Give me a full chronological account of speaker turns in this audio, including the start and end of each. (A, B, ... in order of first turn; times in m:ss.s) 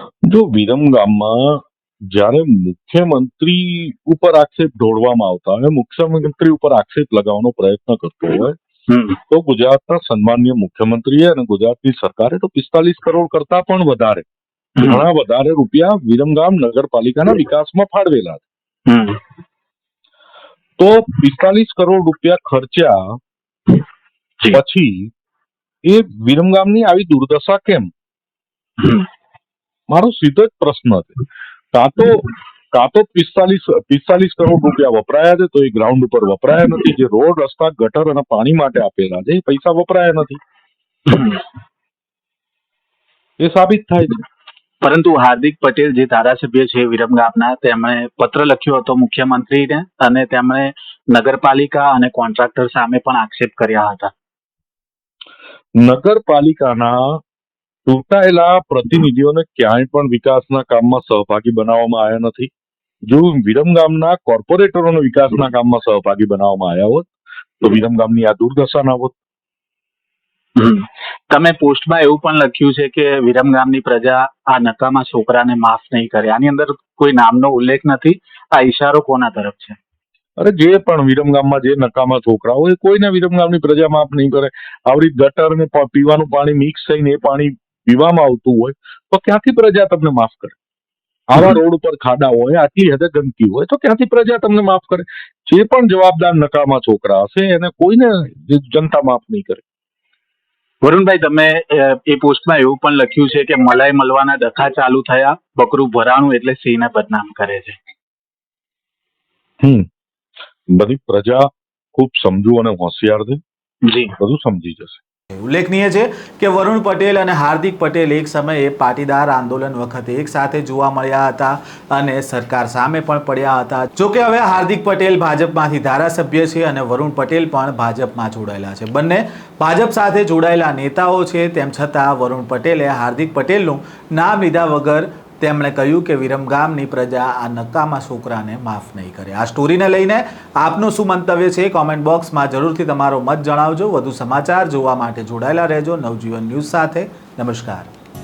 0:00.3-0:08.6 A
0:08.9-0:09.2 B
0:09.3-0:14.2 A
0:14.8-0:15.0 B
0:14.8-0:18.4 A
0:18.9-0:19.2 B
0:20.8-0:23.2 A
0:24.5-0:25.1 A
0:25.8-0:27.9 A
0:28.8-0:29.1 B
0:29.9-0:31.2 A
0:31.7-0:40.4 A
0:41.0-0:41.4 B
0:43.4-0:44.2 A
0:44.8-0:54.1 B
0:55.8-0:57.2 A
0:57.8-1:02.5 A
1:03.1-1:09.1 A
1:10.6-1:19.8 B
1:20.4-1:30.5 A
1:31.3-1:39.6 A
1:40.8-1:47.8 B
1:50.7-1:53.4 A
1:53.8-1:54.1 B
1:54.2-1:55.0 A
1:55.4-2:27.9 C